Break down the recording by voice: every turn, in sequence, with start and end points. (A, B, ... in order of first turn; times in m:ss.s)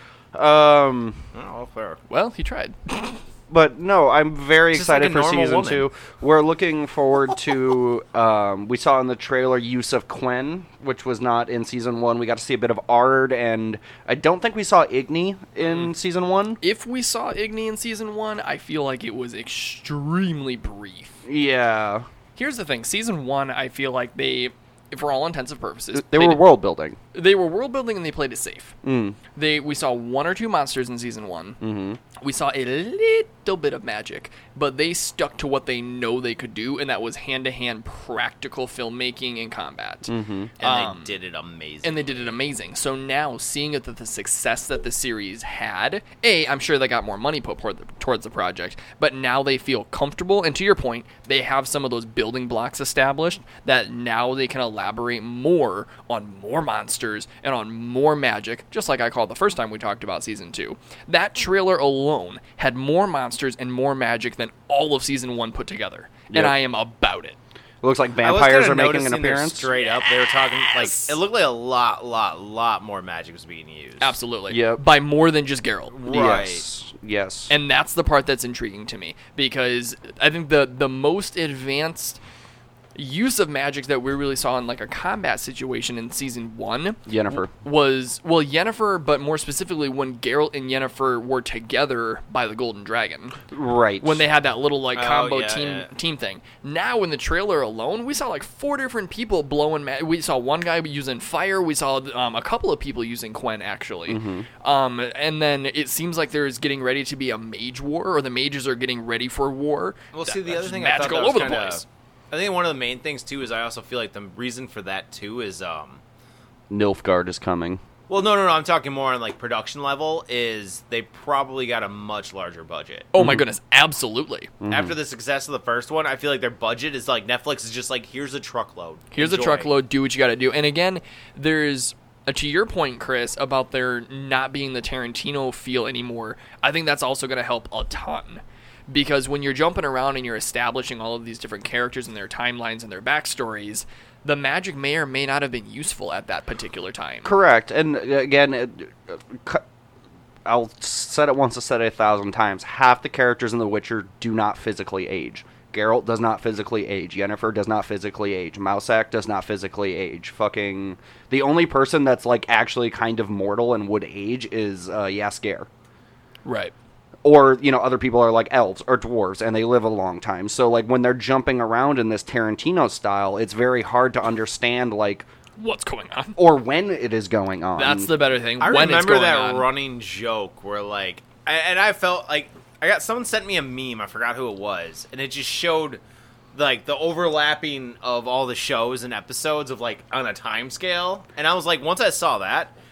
0:00.3-0:01.2 A
0:01.3-0:02.0 B
0:02.1-0:03.2 C
0:03.5-0:16.6 A
0:04.7-0:05.9 B
0:16.6-0:21.2 C
0:21.2-0:22.1 A
0:22.4-0:26.5 C
0:25.9-0:27.0 A
0:27.1-0:28.8 C
0:28.8-0:29.2 A
0:29.4-0:31.6 C
0:31.6-0:32.0 A
0:32.2-0:41.2 C
0:40.1-0:40.5 A
0:40.6-0:42.4 B
0:41.8-1:07.4 C
1:06.3-1:06.6 A
1:07.8-1:09.7 A
1:08.2-1:14.2 B
1:09.8-1:11.2 C
1:14.0-1:16.0 C
1:14.5-1:14.8 A
1:15.9-1:16.6 B
1:16.1-1:17.5 A
1:17.5-1:22.2 C
1:23.0-1:33.4 C
1:27.1-1:27.5 A
1:33.5-1:34.2 A
1:34.0-1:51.8 C
1:34.9-1:35.9 B
1:44.1-1:44.5 A
1:50.1-1:56.0 B
1:56.7-1:57.8 A
1:58.1-2:03.1 B
2:03.1-2:04.5 C
2:04.6-2:05.0 A
2:04.7-2:09.7 B
2:09.1-2:27.3 C
2:27.2-2:29.6 A
2:30.4-2:45.7 A
2:46.4-2:46.7 C
2:47.2-2:55.3 A
2:55.6-2:56.4 C
2:56.4-2:58.1 A
2:57.8-2:59.7 C
2:58.6-3:06.0 B
3:06.5-3:12.7 B